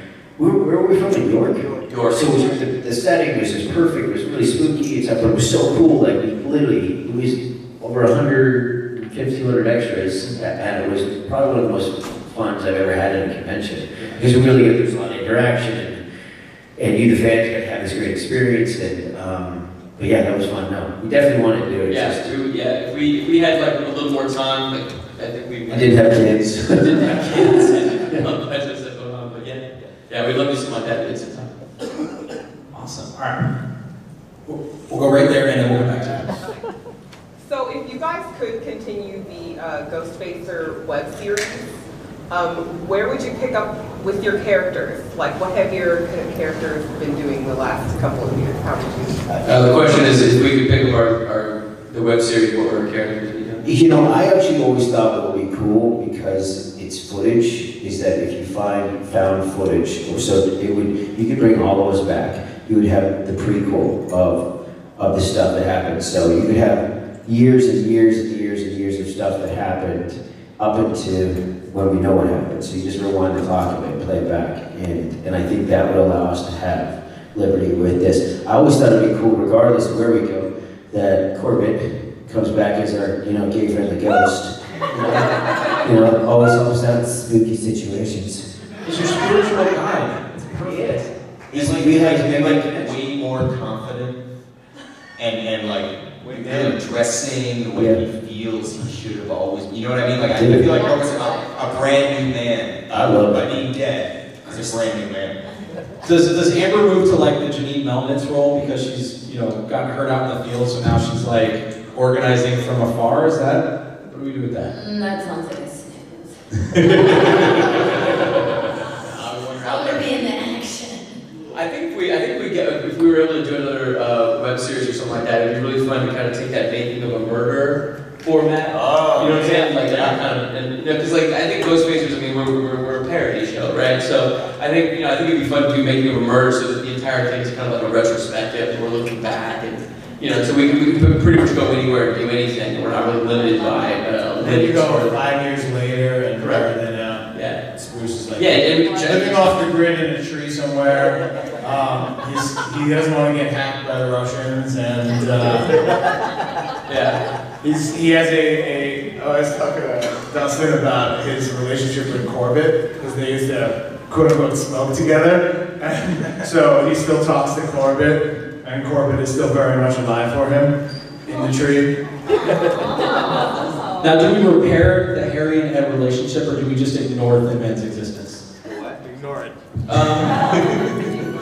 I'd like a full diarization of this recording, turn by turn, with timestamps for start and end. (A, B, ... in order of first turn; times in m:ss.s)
0:00.4-0:16.0 A
0:01.9-0:02.4 B
0:16.8-0:22.3 A
0:21.9-0:26.2 B
0:25.7-0:27.0 A
0:26.7-0:32.1 B
0:32.7-0:33.4 C
0:34.5-0:36.4 C
0:37.4-0:41.7 D
0:42.3-0:49.6 D
0:49.4-0:53.7 B
0:53.6-1:04.4 A
1:05.0-1:28.4 A
1:28.8-1:30.7 C
1:30.6-1:33.0 A
1:31.5-1:34.2 E
1:35.2-1:45.4 E
1:37.7-1:38.0 A
1:40.3-1:40.8 A
1:40.7-1:41.4 F
1:42.9-1:43.6 A
1:46.0-1:54.7 C
1:54.6-1:56.3 F
1:56.7-1:57.6 C
1:56.9-1:57.3 F
1:57.7-1:58.3 B
1:59.0-2:00.4 B
1:59.6-2:01.2 F
2:01.5-2:25.2 B
2:08.7-2:10.2 E
2:24.4-2:36.0 G
2:26.4-2:26.7 B
2:27.3-2:27.7 B
2:28.4-2:29.6 B
2:36.9-2:37.2 B
2:37.6-2:50.7 G
2:51.2-2:52.0 G
2:54.0-2:58.4 C
2:59.1-2:59.4 G
2:59.9-3:00.9 B